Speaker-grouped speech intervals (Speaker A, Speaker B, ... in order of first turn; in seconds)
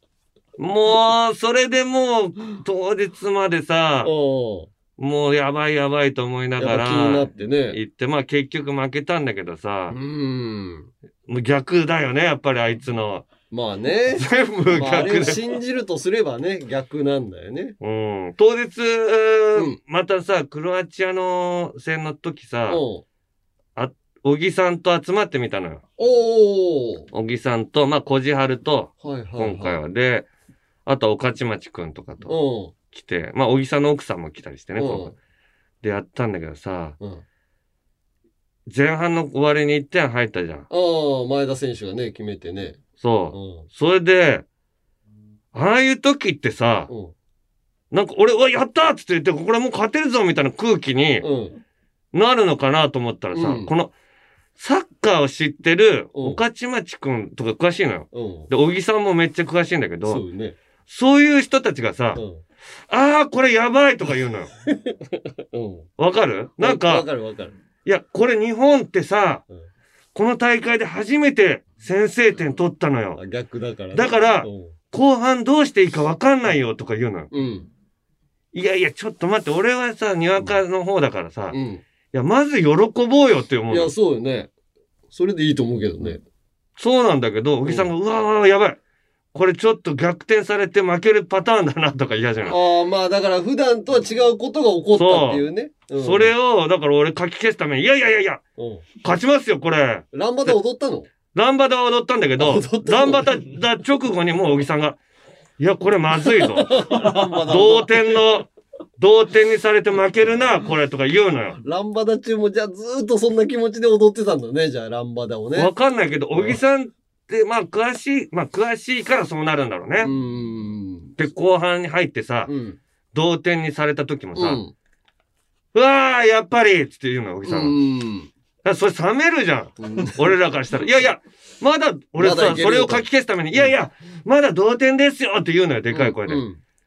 Speaker A: 0.6-4.1, 5.0-10.0, 11.3-13.2, 14.2-15.4, 17.8-22.8, 23.8-25.8, 27.1-30.3, 30.9-32.3, 32.9-35.1, 35.8-37.0, 38.7-40.7, 43.0-44.5, 45.5-46.9, 47.9-51.3, 52.1-53.9, 54.6-60.2, 60.9-62.2, 62.9-64.5, 66.0-67.0, 67.8-69.4, 70.2-73.2, 73.9-77.3, 78.5-81.6, 82.1-83.9, 86.8-88.8, 89.3-92.6, 94.9-95.4, 96.0-98.4, 99.0-100.6, 101.3-105.0, 105.6-111.6, 115.5-120.1, 121.2-122.5, 123.1-124.6, 125.7-127.8, 128.6-136.4
Speaker B: 4.0-4.7, 6.6-7.8, 9.9-10.9, 13.5-17.8, 22.7-23.0, 26.0-27.1, 29.0-29.8, 32.3-32.7, 34.8-35.1, 40.7-42.8, 43.3-43.7, 46.9-47.1, 51.2-51.5, 53.3-53.7, 56.1-56.4, 58.1-58.5, 60.0-60.5, 62.2-62.4, 64.7-65.9, 66.6-67.5, 73.2-74.7, 77.3-77.7, 81.5-81.8, 83.7-84.5, 85.1-86.2, 92.5-96.3, 98.6-98.8, 100.1-101.1, 102.4-103.3, 106.2-108.2, 111.6-115.7, 120.0-121.1, 122.5-122.8, 124.3-124.7, 127.4-128.3, 129.8-130.3, 132.2-133.7, 135.9-136.6